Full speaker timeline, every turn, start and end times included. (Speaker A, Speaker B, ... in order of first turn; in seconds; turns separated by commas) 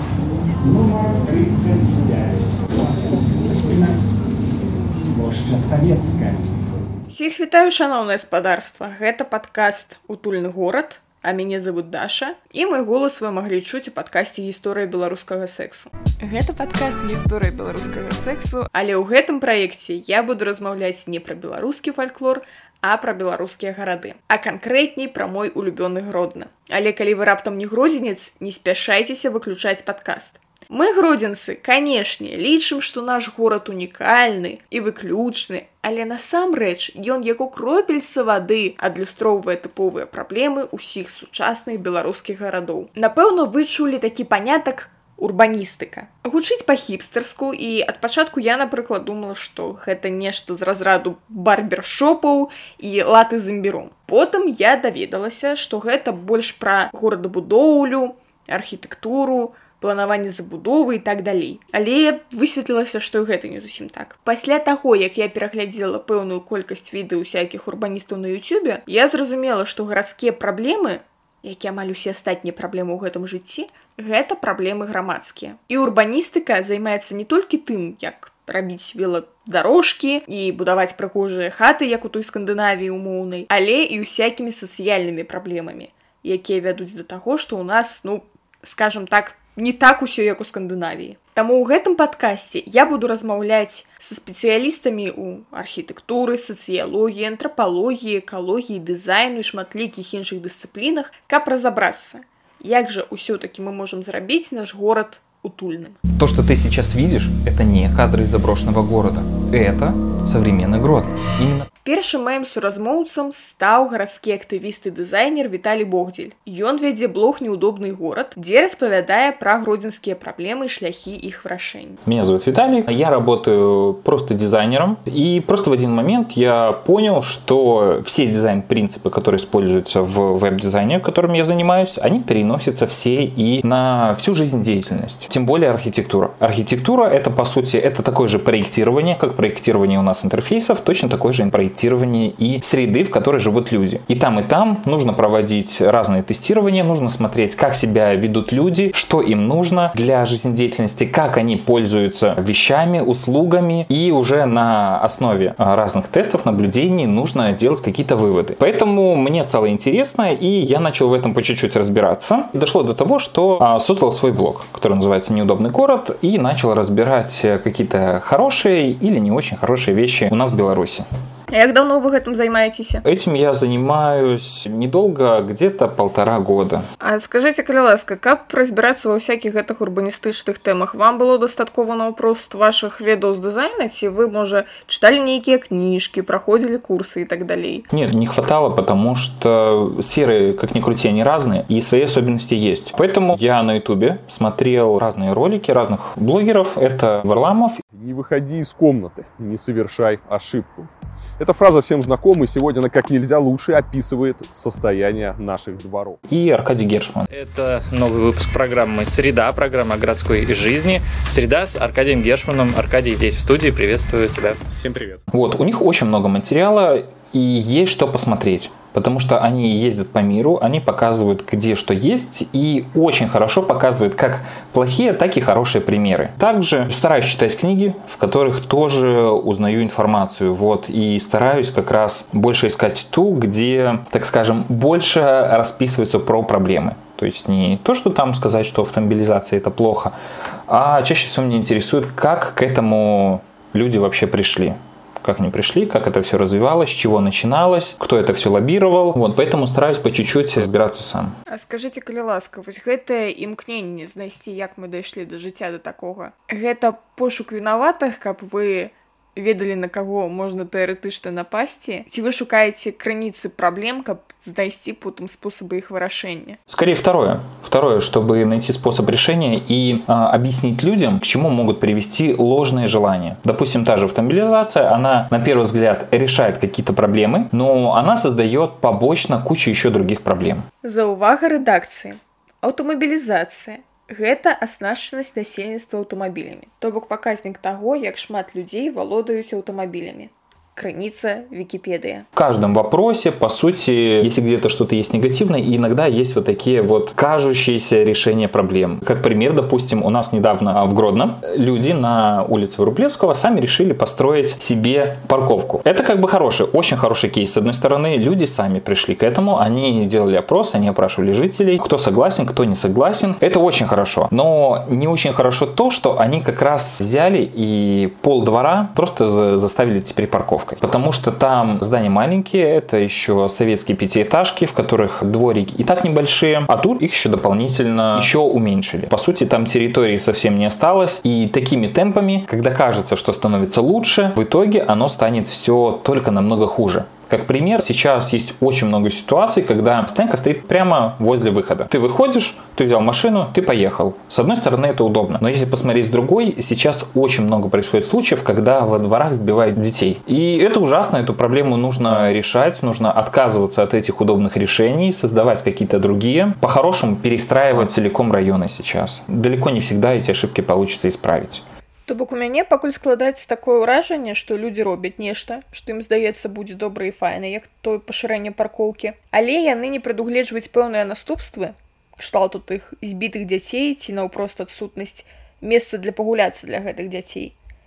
Speaker A: 0.6-4.0, Speaker A: 4.9-6.5, Speaker B: 7.1-106.0, Speaker C: 106.1-111.7, Speaker B: 111.8-122.0, Speaker C: 122.0-171.1, Speaker B: 171.5-173.1, Speaker C: 173.0-176.9, Speaker B: 177.0-187.9, Speaker C: 187.9-197.8, Speaker D: 197.9-206.2, Speaker C: 206.3-207.3, Speaker E: 207.3-215.2, Speaker C: 215.3-240.2, Speaker C: 240.7-251.4, Speaker B: 251.5-266.6, Speaker C: 266.7-280.7, Speaker B: 280.8-292.3, Speaker C: 292.4-361.6, Speaker B: 362.1-377.5